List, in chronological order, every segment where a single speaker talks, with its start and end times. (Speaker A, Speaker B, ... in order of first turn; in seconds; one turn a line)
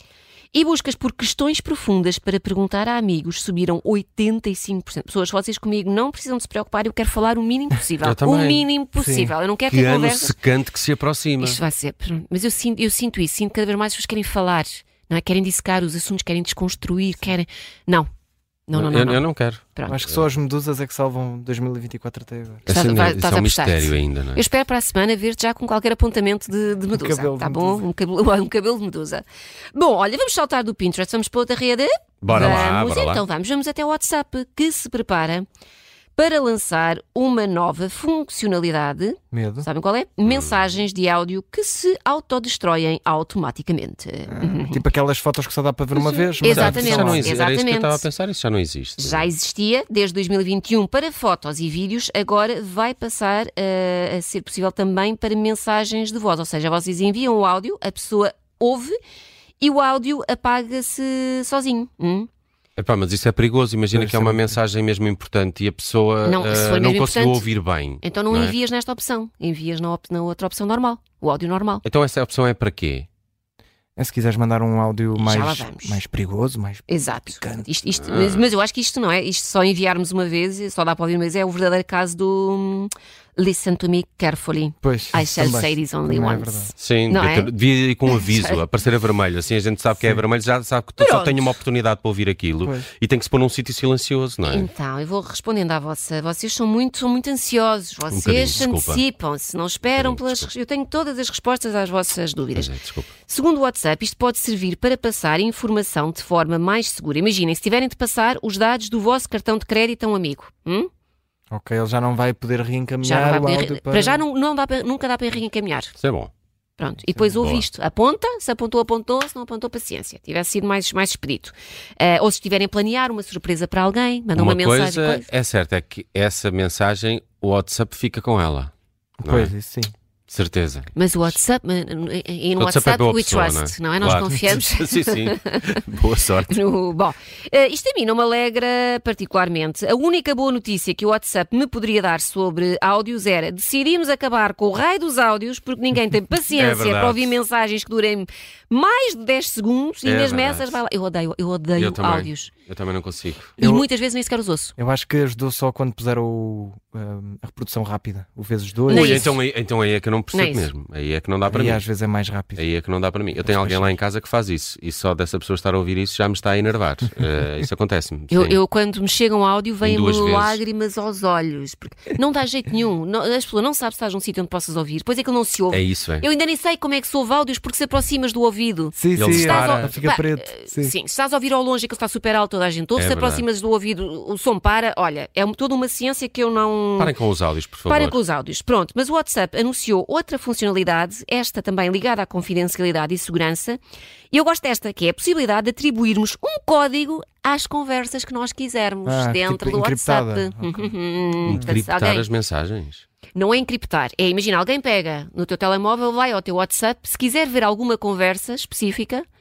Speaker A: 0.5-10.4
Speaker B: 8.0-8.7
Speaker C: 9.0-9.3
Speaker B: 9.7-11.6
Speaker A: 11.4-18.1
Speaker A: 18.7-20.0
Speaker B: 18.7-20.2
Speaker C: 19.9-22.7
Speaker B: 22.7-24.4
Speaker A: 22.7-35.5
Speaker C: 26.9-27.8
Speaker B: 32.2-33.2
Speaker A: 36.2-44.8
Speaker C: 39.3-39.7
Speaker C: 44.3-47.4
Speaker B: 46.0-49.3
Speaker A: 46.4-48.0
Speaker A: 49.0-59.0
Speaker A: 59.6-62.3
Speaker B: 62.8-68.6
Speaker C: 63.9-64.6
Speaker A: 66.2-71.8
Speaker B: 71.8-73.1
Speaker C: 74.0-77.7
Speaker A: 75.2-76.0
Speaker A: 76.9-87.5
Speaker B: 78.0-78.5
Speaker C: 84.8-86.7
Speaker B: 86.8-94.7
Speaker A: 88.1-88.6
Speaker A: 91.0-91.5
Speaker A: 94.5-102.7
Speaker B: 98.1-99.0
Speaker B: 99.9-100.5
Speaker B: 102.5-103.1
Speaker A: 103.3-110.9
Speaker C: 111.5-114.2
Speaker A: 113.0-115.9
Speaker B: 116.0-116.3
Speaker A: 116.8-125.3
Speaker B: 117.4-117.7
Speaker B: 124.3-129.5
Speaker C: 129.2-129.9
Speaker B: 130.3-131.3
Speaker A: 131.0-135.8
Speaker B: 132.6-136.6
Speaker A: 136.5-152.5
Speaker B: 146.6-147.4
Speaker B: 150.1-150.8
Speaker B: 151.8-153.5
Speaker A: 153.6-154.7
Speaker C: 153.6-153.9
Speaker C: 154.8-159.2
Speaker A: 158.9-159.4
Speaker B: 158.9-161.8
Speaker A: 160.3-160.7
Speaker C: 161.5-162.6
Speaker B: 162.6-168.6
Speaker C: 163.5-163.9
Speaker A: 168.3-187.2
Speaker B: 169.8-170.6
Speaker B: 175.7-176.2
Speaker C: 179.0-180.9
Speaker B: 179.1-179.9
Speaker B: 183.0-183.4
Speaker B: 187.0-188.2
Speaker A: 187.9-193.8
Speaker A: 194.3-202.3
Speaker C: 199.1-200.9
Speaker B: 201.4-203.0
Speaker A: 203.3-209.2